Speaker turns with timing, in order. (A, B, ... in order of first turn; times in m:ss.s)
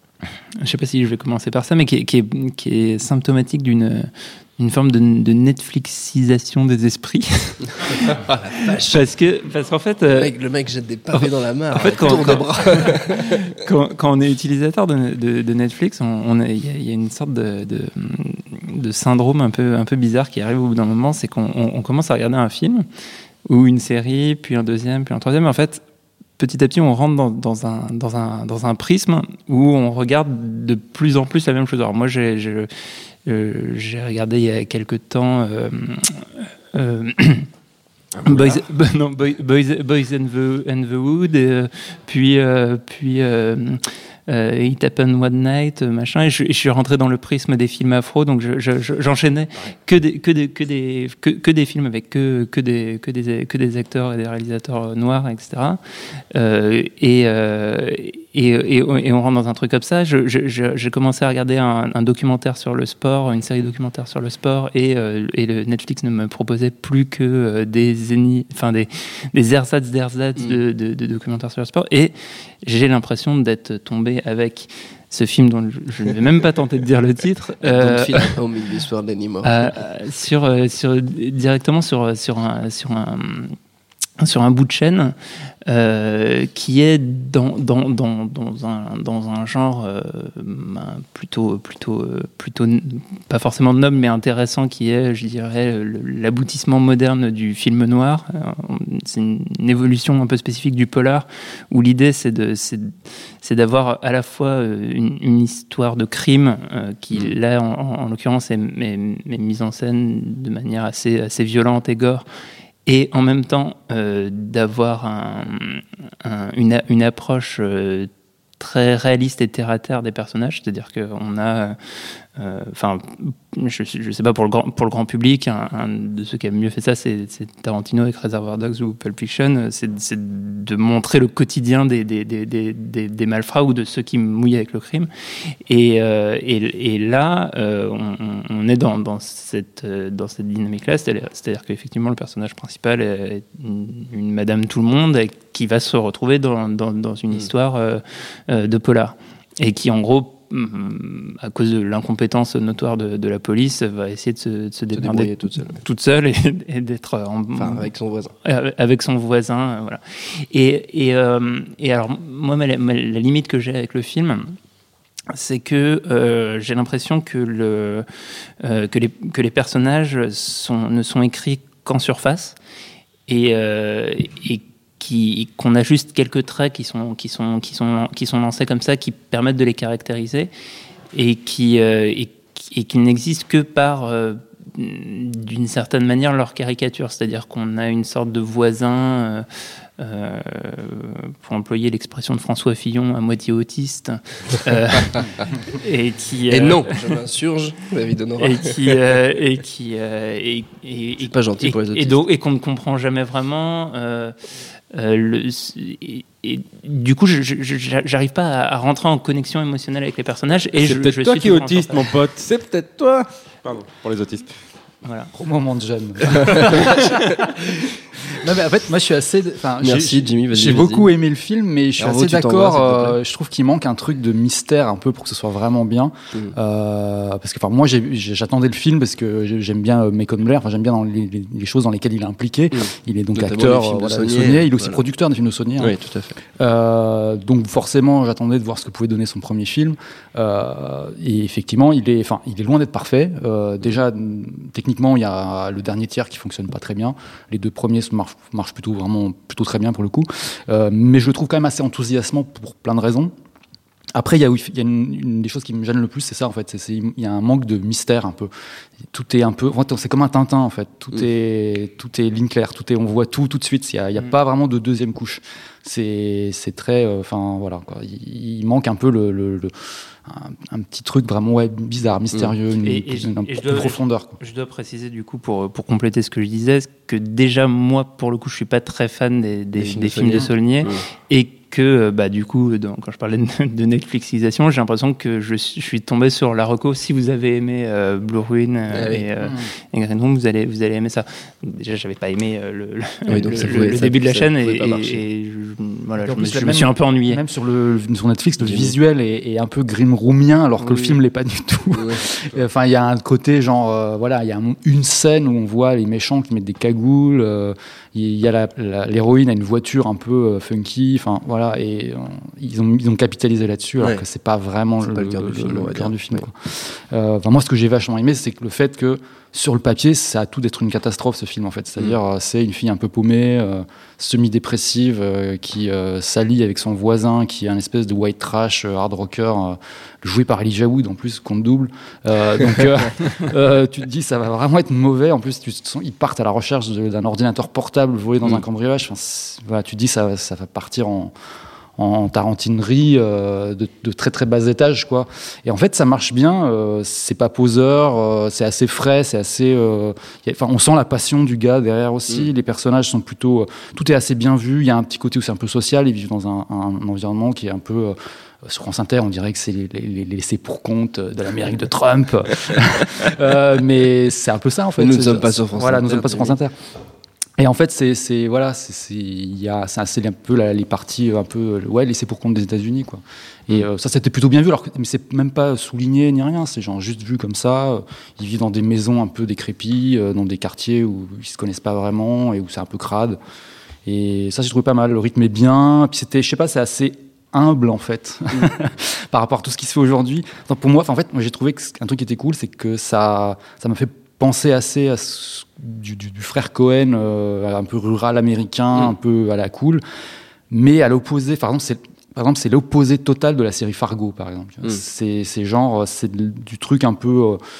0:00.6-0:10.3 A
0:08.0-0:09.0 B
0:10.1-0:13.5 B
0:11.1-0:22.8 A
0:23.4-0:25.8 A
0:26.4-0:32.7 A
0:33.2-0:37.5 A
0:38.1-0:38.6 C
0:38.2-0:55.8 A
0:56.3-1:18.4 A
1:17.6-1:19.7 B
1:19.4-1:23.6 A
1:24.2-1:25.1 A
1:25.7-1:52.2 A
1:52.8-2:01.8 A
2:02.4-2:15.1 A
2:15.6-2:37.9 A
2:34.9-2:35.8 B
2:37.6-2:38.3 B
2:38.4-2:44.6 A
2:45.3-2:48.0 A
2:48.6-2:52.6 A
2:53.3-3:00.5 A
3:01.1-3:09.4 A
3:10.0-3:16.9 A
3:16.5-3:19.0 B
3:18.4-3:24.3 A
3:21.2-3:22.2 B
3:24.9-3:32.1 A
3:30.7-3:34.5 C
3:35.0-3:35.3 A
3:35.3-3:56.0 D
3:39.8-3:41.1 B
3:42.0-3:43.2 B
3:52.7-3:55.0 B
3:55.8-3:56.4 B
3:56.5-4:13.3 D
4:14.1-4:18.5 D
4:19.1-4:29.7 D
4:30.2-4:34.4 D
4:32.8-4:57.4 A
4:39.8-4:41.0 B
4:48.9-4:49.3 B
4:49.4-4:49.7 D
4:53.3-4:55.2 B
4:56.2-5:41.3 D
4:58.6-4:58.9 B
5:00.8-5:01.2 A
5:02.0-5:02.2 B
5:15.1-5:16.4 B
5:42.0-6:06.7 D
6:05.0-6:06.5 B
6:07.6-6:23.4 D
6:24.0-6:40.0 D
6:40.7-6:47.6 D